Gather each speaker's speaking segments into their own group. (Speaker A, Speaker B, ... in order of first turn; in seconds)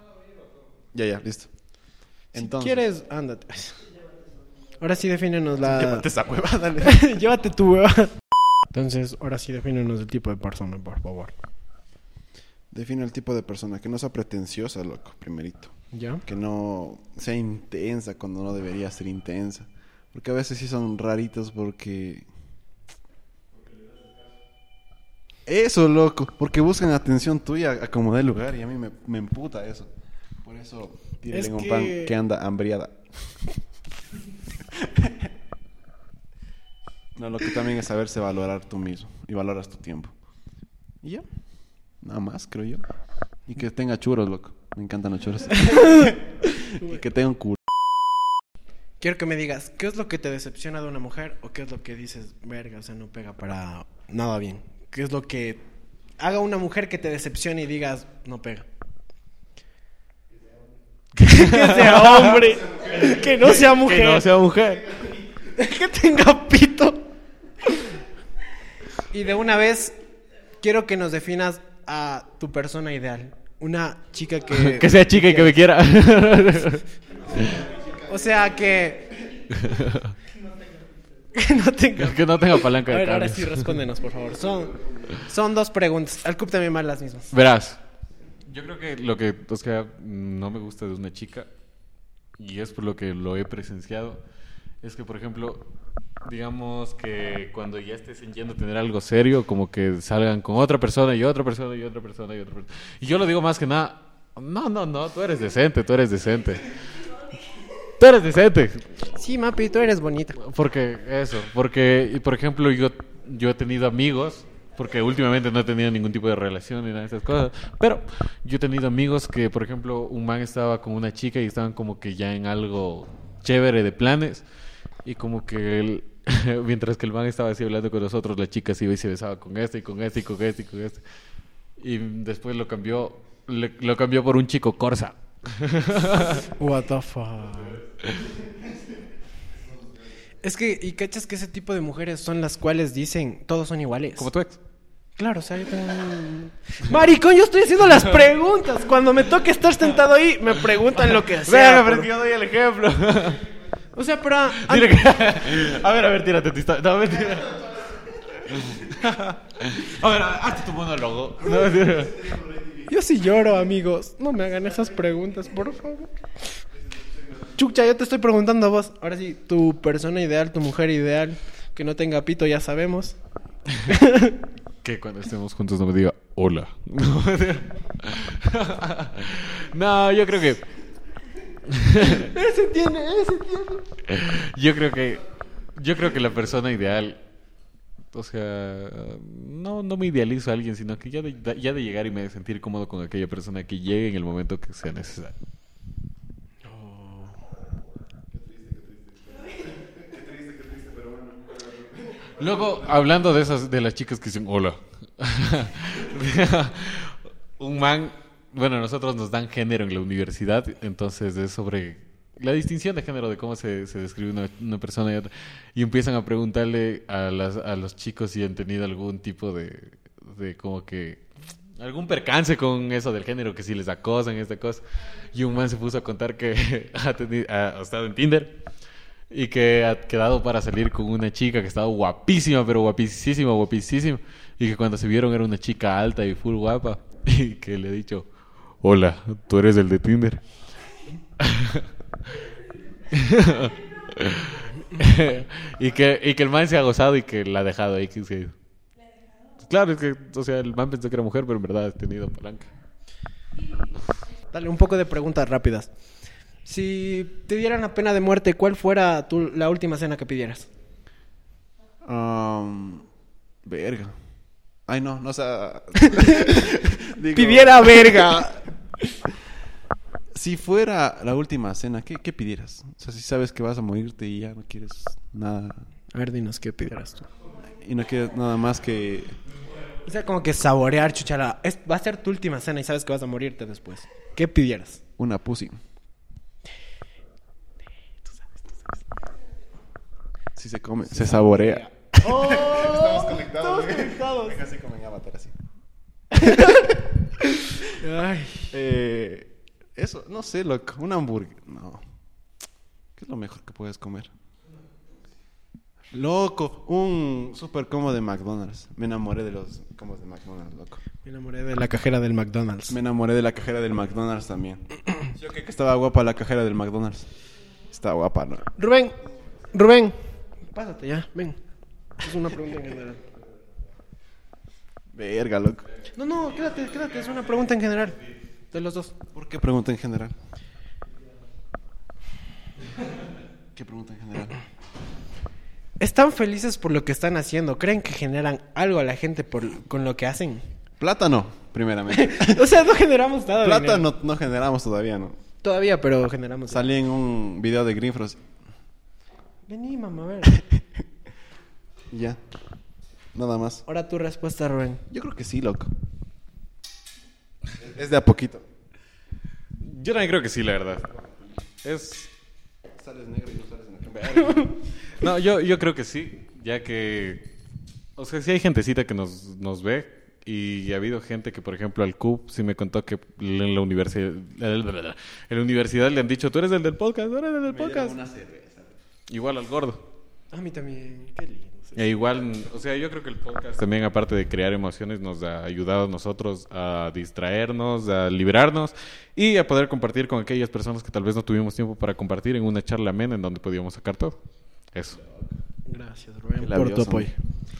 Speaker A: 0.9-1.5, 2.3-2.8, 5.6-7.1, 12.7-22.3, 25.4-29.9, 30.4-33.6, 34.7-35.3, 37.1-40.2, 41.0-47.6, 162.2-162.8, 198.3-202.8, 262.0-263.1, 263.6-264.2, 264.9-268.4, 270.3-275.9, 277.6-279.4, 285.2-285.8, 290.6-295.5, 296.4-296.9, 298.7-302.0, 303.1-304.3, 306.1-311.0, 312.9-314.8, 315.3-317.3, 317.9-318.7, 325.1-325.8, 329.3-330.4, 333.8-334.6, 341.0-342.7, 343.6-345.4, 346.7-348.4, 352.1-352.4, 353.3-353.8, 355.1-355.9, 357.7-358.6, 363.0-364.7, 377.6-379.0, 396.6-397.3
Speaker B: 2.3-3.9, 4.8-6.1, 6.8-8.1, 8.7-11.3, 15.9-16.2, 31.3-32.1, 45.7-46.1, 46.6-47.0, 49.0-55.6, 56.2-58.6, 61.2-64.2, 65.4-67.0, 69.1-70.0, 70.6-75.6, 78.0-79.2, 81.3-87.3, 109.1-110.4, 136.4-137.8, 140.4-144.3, 145.2-152.1, 153.9-155.2, 162.9-166.2, 167.6-173.2, 173.9-174.3, 182.0-183.8, 196.6-197.4, 254.5-255.9, 256.6-260.7, 266.1-266.5, 267.3-268.7, 276.1-277.3, 280.0-285.0, 288.3-288.9, 291.1-294.6, 296.3-296.9, 297.9-298.7, 311.2-312.9, 318.8-319.2, 319.7-321.6, 322.2-323.2, 326.1-328.2, 328.7-329.1, 336.0-340.6, 342.1-344.1, 345.6-346.9, 349.7-350.6, 353.9-355.0, 364.4-364.7, 380.5-382.2, 395.9-397.3
Speaker C: 61.2-62.4, 63.1-65.0, 74.5-77.6, 79.6-80.1, 82.0-83.8, 87.3-87.8, 88.5-91.5, 92.4-94.2, 94.8-95.7, 96.2-106.8, 108.0-109.0, 110.4-124.4, 125.0-131.0, 131.8-136.4, 144.2-144.6, 151.4-153.4, 154.7-157.8, 158.5-162.3, 174.8-180.6, 181.7-182.3, 184.1-185.2, 185.8-187.2, 188.1-195.3, 202.4-221.2, 221.8-228.6, 229.3-238.3, 238.8-240.4, 241.4-241.9, 243.1-248.5, 249.6-252.7, 359.8-361.1, 361.8-362.3, 365.0-367.5, 368.2-378.2, 379.3-380.0, 381.9-394.4, 394.9-395.2